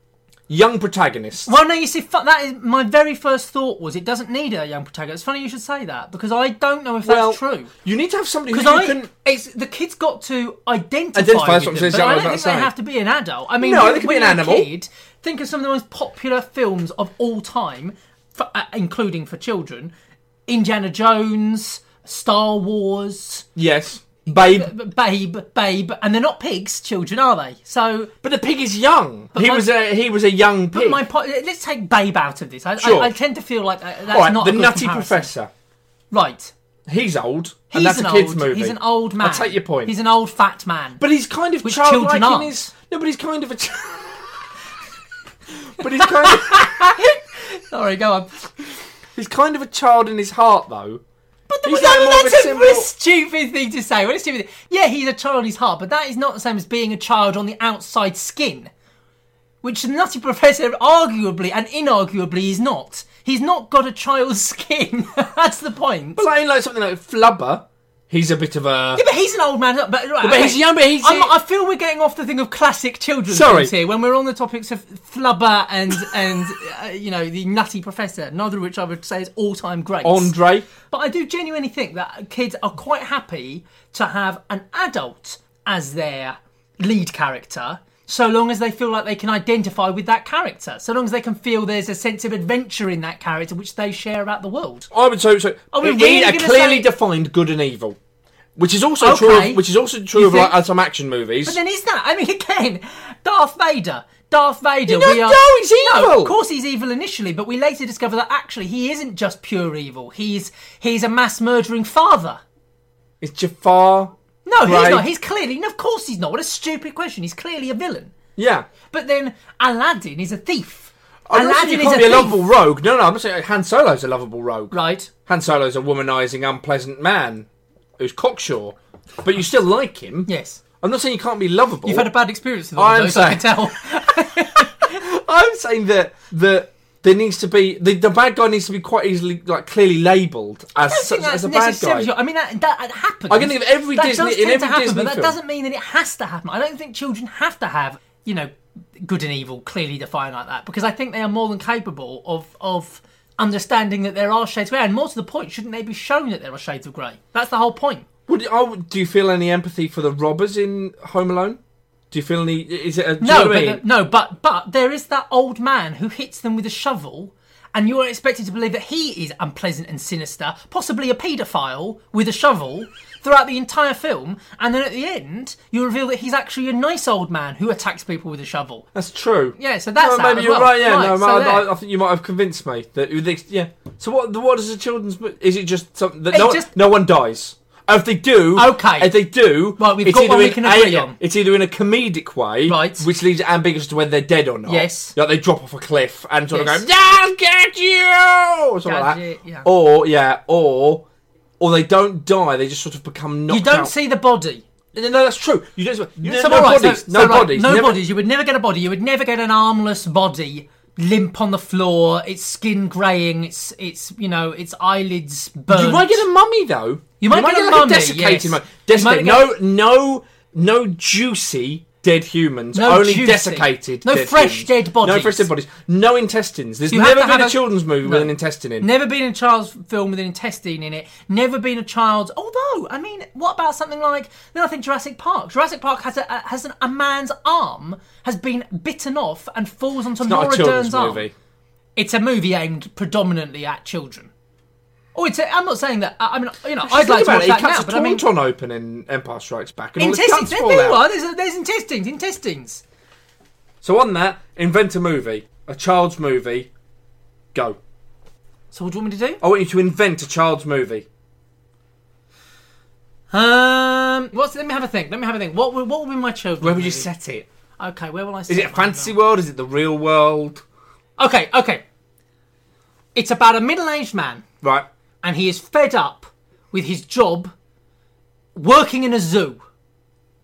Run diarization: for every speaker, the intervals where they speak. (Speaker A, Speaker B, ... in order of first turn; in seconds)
Speaker A: 0.5-1.5, 7.0-9.1, 11.2-12.7, 13.6-14.7, 23.6-24.7, 28.2-31.0, 32.8-33.1, 34.1-35.5, 36.9-39.9, 41.0-44.3, 45.8-46.7, 49.1-51.0, 51.6-52.9, 66.2-69.0, 70.2-71.3, 73.3-73.7, 80.0-80.7, 94.9-98.0, 98.6-101.6, 104.9-106.3, 113.2-114.1, 114.7-115.1, 118.4-118.7, 121.3-124.7, 125.3-127.5, 128.0-130.3, 130.8-132.1, 132.8-133.6, 134.8-142.1, 143.3-145.3, 158.3-161.6, 162.1-163.8, 178.9-201.0, 201.6-203.9, 204.9-208.0, 215.7-228.9, 240.2-241.3, 246.9-251.0, 253.8-256.7, 259.4-261.1, 266.6-267.5, 268.5-270.6, 274.6-274.9
Speaker B: 1.4-7.7, 8.5-19.9, 20.5-23.5, 24.3-28.1, 29.4-29.6, 30.7-35.3, 36.1-36.5, 37.7-41.0, 41.6-42.7, 45.9-48.5, 51.5-58.7, 59.6-66.2, 69.0-94.9, 95.7-96.9, 99.0-99.6, 100.1-100.5, 101.5-112.4, 114.5-118.1, 118.9-122.4, 124.7-125.1, 130.3-130.6, 131.8-135.0, 140.8-158.1, 163.2-178.9, 179.6-181.7, 186.3-186.7, 188.6-189.1, 189.8-191.2, 192.7-193.1, 194.7-195.1, 196.5-196.9, 198.8-199.7, 203.5-204.6, 206.2-216.2, 217.2-219.5, 222.7-225.5, 226.9-241.3, 242.0-244.3, 245.1-248.2, 250.0-252.8, 258.7-259.4, 263.3-267.1, 267.8-269.1, 271.2-271.8, 273.1-274.4, 275.2-277.5, 278.6-279.6